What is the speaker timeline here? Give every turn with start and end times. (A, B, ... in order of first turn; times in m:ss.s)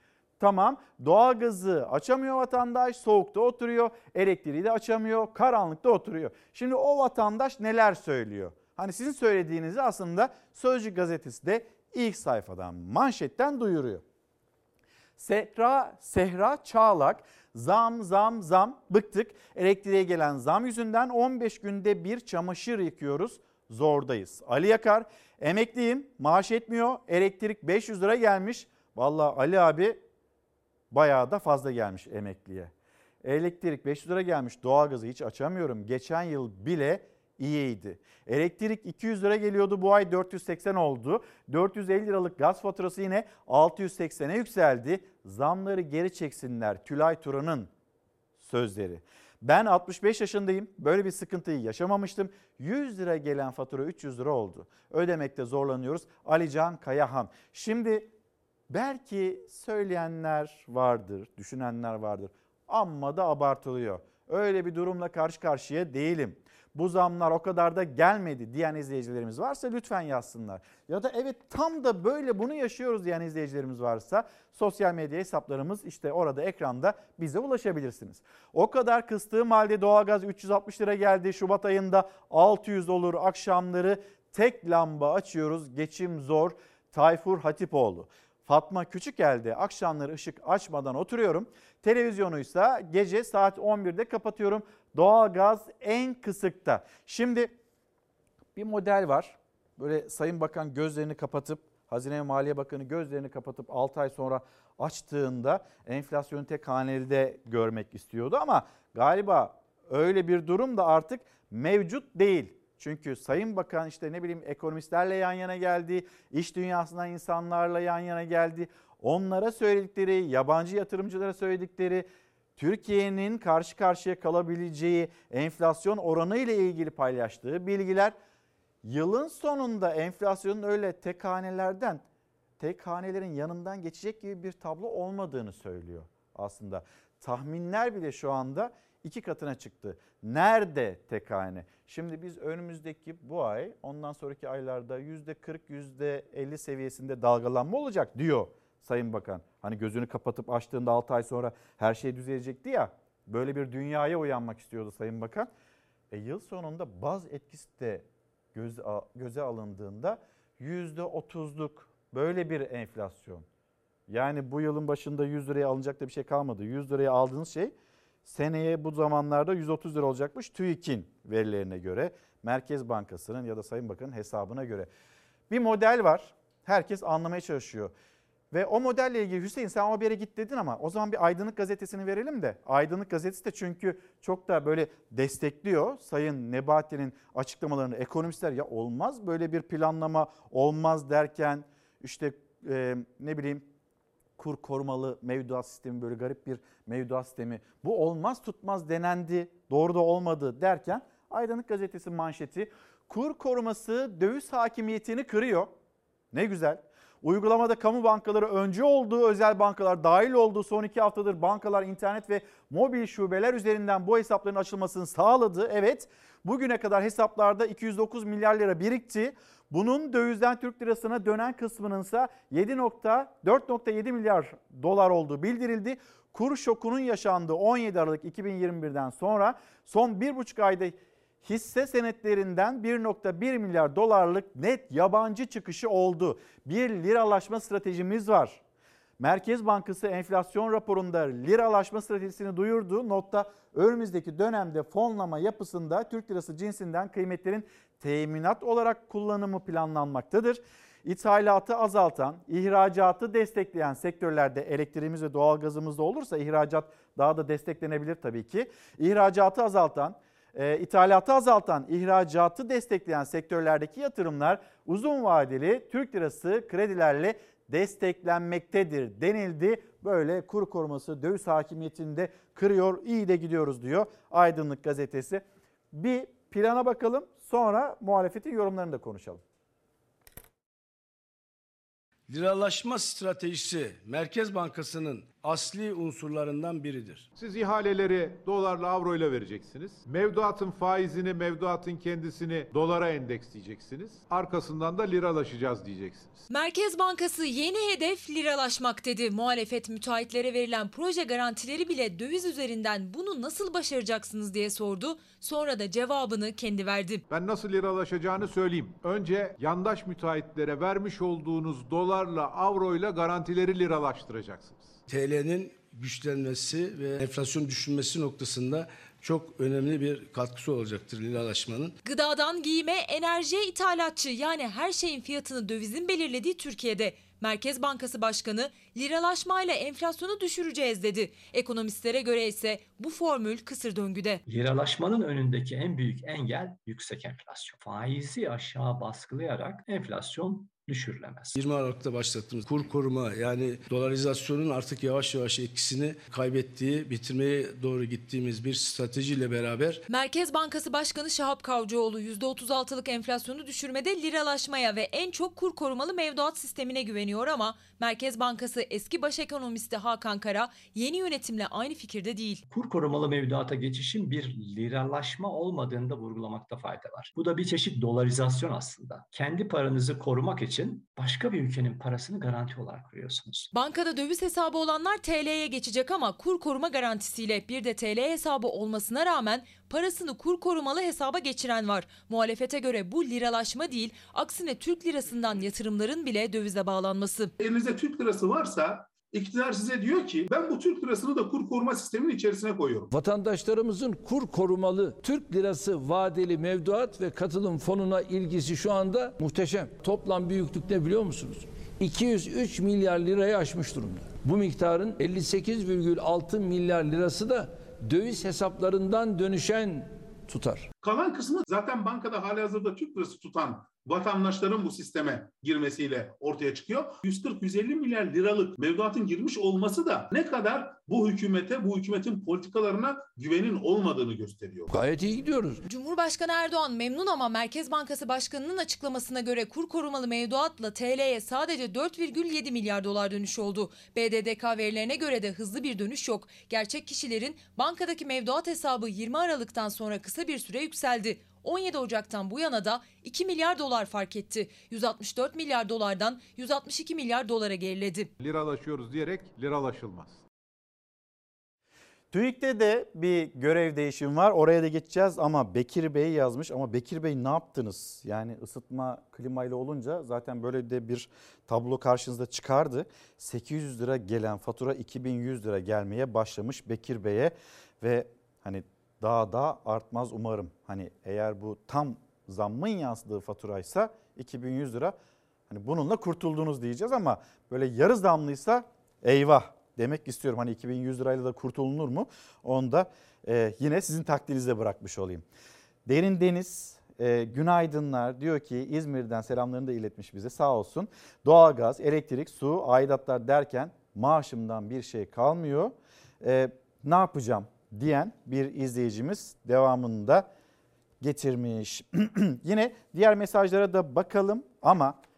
0:00.4-0:14.0 A
0:15.2-0:30.0 A
0:30.9-0:32.7 A
0:33.2-0:47.7 A
0:48.4-0:58.1 A
0:58.7-1:37.5 A
1:38.5-2:08.1 A
2:08.8-2:12.0 A
2:12.6-2:35.5 A
2:36.1-2:43.4 A
2:44.1-2:54.9 A
2:55.5-2:57.9 A
2:58.5-3:13.7 A
3:14.4-3:25.7 A
3:26.3-3:58.6 A
3:59.2-4:39.4 A
4:42.3-4:47.2 B
4:47.3-4:56.4 C
4:56.5-5:07.2 D
5:07.3-5:14.9 C
5:15.1-5:21.9 B
5:22.0-5:34.4 D
5:34.5-5:41.6 E
5:41.6-5:50.0 B
5:50.1-6:02.6 D
6:02.7-6:13.7 E
6:13.7-6:27.5 D
6:27.6-6:33.1 F
6:33.1-6:50.9 G
6:51.0-7:04.9 F
7:04.9-7:05.8 G
7:05.9-7:28.3 D
7:28.4-7:30.4 C
7:32.3-7:55.2 A
7:55.7-8:05.4 A
8:06.0-8:20.5 A
8:21.2-8:25.2 A